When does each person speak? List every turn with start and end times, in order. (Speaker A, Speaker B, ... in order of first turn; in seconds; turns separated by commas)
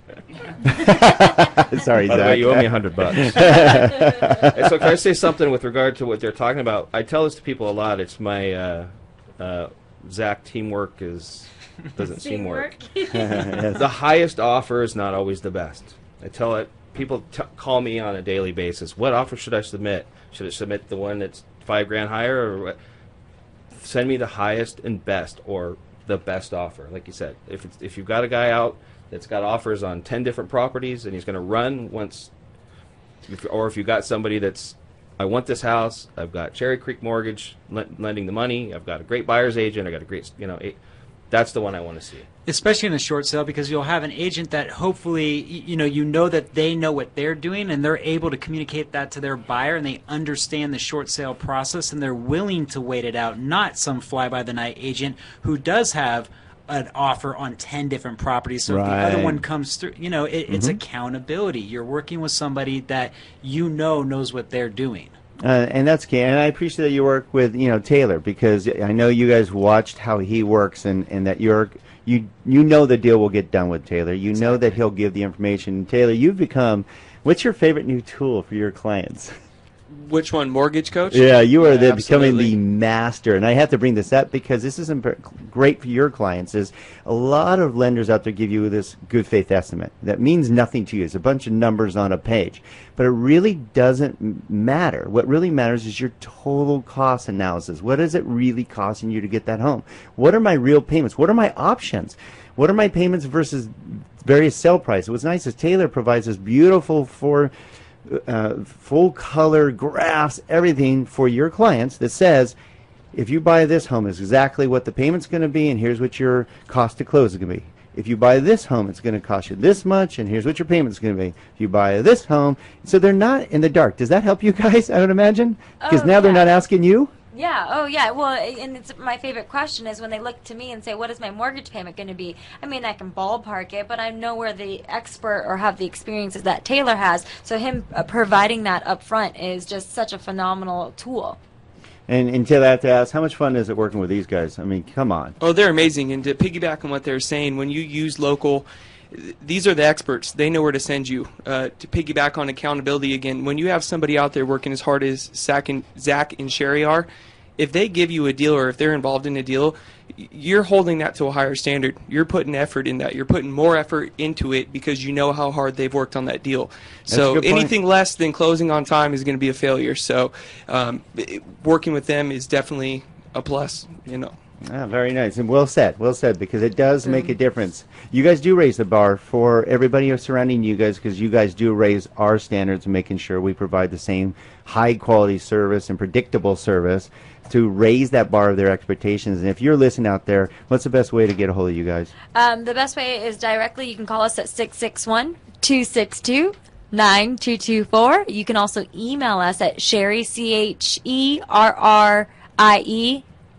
Speaker A: 0.6-4.5, Speaker B: 2.0-22.8, Speaker A: 13.2-13.8, Speaker B: 23.7-32.3, Speaker B: 33.3-40.8, Speaker B: 41.3-42.3, Speaker C: 42.5-65.2, Speaker A: 58.7-59.4, Speaker A: 60.5-60.8, Speaker A: 65.4-79.3, Speaker C: 74.3-74.8, Speaker D: 79.9-82.5, Speaker A: 81.1-107.5, Speaker A: 108.1-112.6, Speaker A: 113.1-127.1, Speaker E: 125.8-126.6, Speaker E: 127.3-141.4, Speaker A: 142.1-145.4, Speaker D: 145.4-174.3, Speaker A: 167.1-167.7, Speaker A: 174.7-192.1, Speaker E: 192.3-203.2